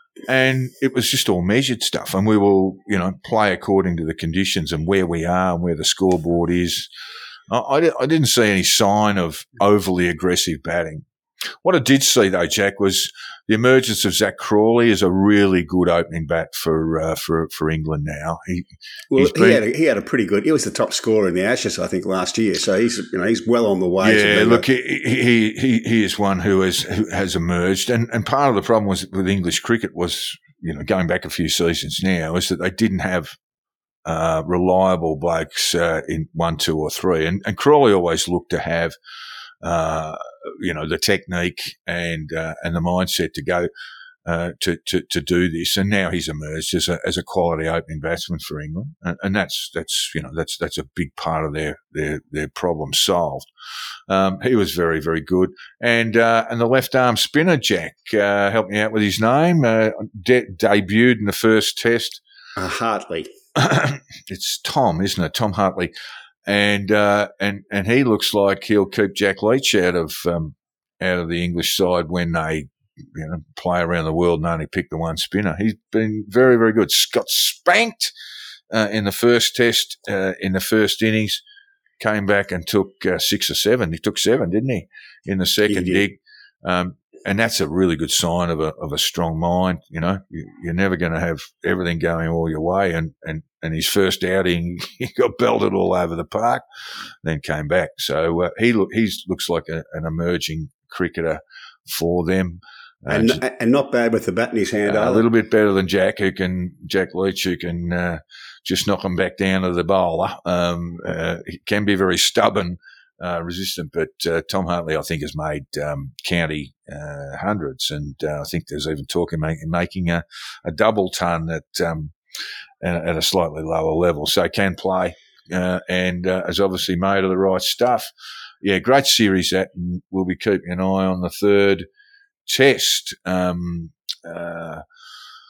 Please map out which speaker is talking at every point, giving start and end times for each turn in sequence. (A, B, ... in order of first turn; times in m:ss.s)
0:00.3-0:06.9 A
0:07.5-0:11.0 A
0:11.6-0:19.6 A
0:19.1-0:24.7 B
0:24.0-0:33.4 A
0:34.0-0:39.0 A
0:39.6-0:43.7 A
0:44.2-0:53.5 A
0:54.1-1:02.2 A
1:02.6-1:03.3 B
1:03.6-1:05.9 A
1:06.4-1:18.1 A
1:18.7-1:21.4 A
1:22.0-1:36.6 A
1:25.7-1:26.0 B
1:37.2-1:43.4 A
1:43.1-1:45.3 B
1:44.9-2:02.1 A
2:02.8-2:08.1 A
2:08.6-2:11.9 A
2:12.4-2:14.8 A